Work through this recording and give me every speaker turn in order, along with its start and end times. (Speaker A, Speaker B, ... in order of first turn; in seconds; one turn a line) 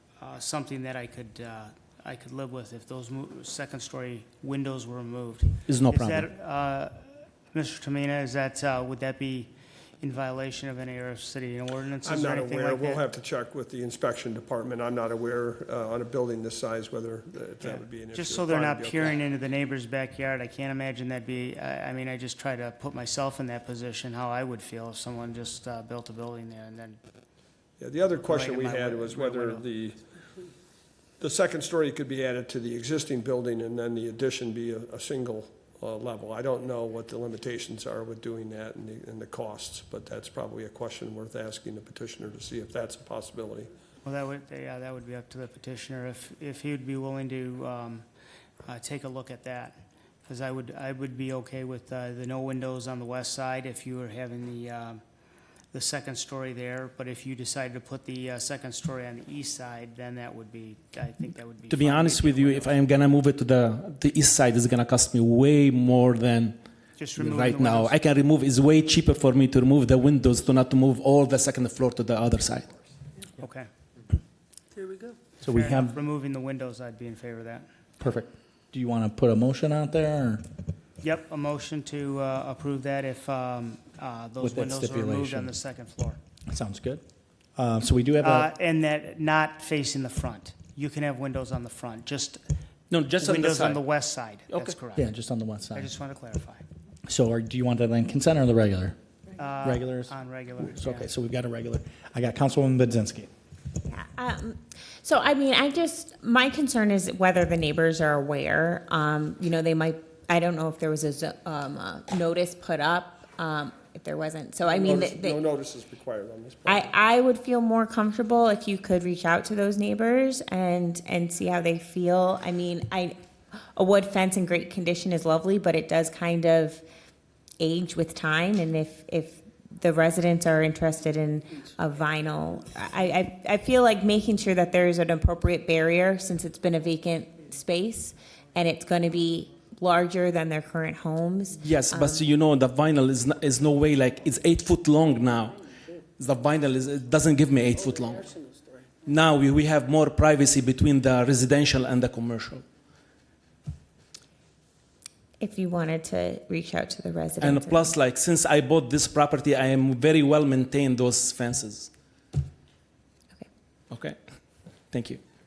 Speaker A: 0.2-13.0
Speaker B: 5.7-6.3
Speaker C: 12.0-19.2
Speaker A: 17.6-27.0
Speaker C: 27.8-30.0
Speaker A: 28.2-29.6
Speaker C: 31.2-43.7
Speaker A: 44.0-48.1
Speaker A: 48.6-55.0
Speaker A: 55.7-62.9
Speaker B: 61.7-72.7
Speaker A: 67.0-68.0
Speaker A: 73.4-73.7
Speaker D: 75.4-76.0
Speaker A: 75.4-77.7
Speaker D: 78.0-80.4
Speaker A: 81.0-86.2
Speaker D: 84.4-85.5
Speaker D: 86.5-87.0
Speaker D: 87.5-88.5
Speaker A: 88.2-92.4
Speaker B: 92.9-93.8
Speaker A: 93.2-95.1
Speaker B: 94.5-94.8
Speaker D: 95.0-95.9
Speaker A: 95.7-96.6
Speaker D: 97.1-99.0
Speaker A: 99.3-101.1
Speaker D: 99.6-100.1
Speaker D: 100.7-103.3
Speaker E: 103.8-115.4
Speaker C: 114.6-116.9
Speaker E: 116.7-123.1
Speaker E: 123.7-126.8
Speaker E: 127.6-142.2
Speaker B: 141.5-148.3
Speaker B: 149.0-152.6
Speaker E: 155.4-157.9
Speaker B: 157.4-161.9
Speaker B: 163.9-164.2
Speaker B: 164.9-165.2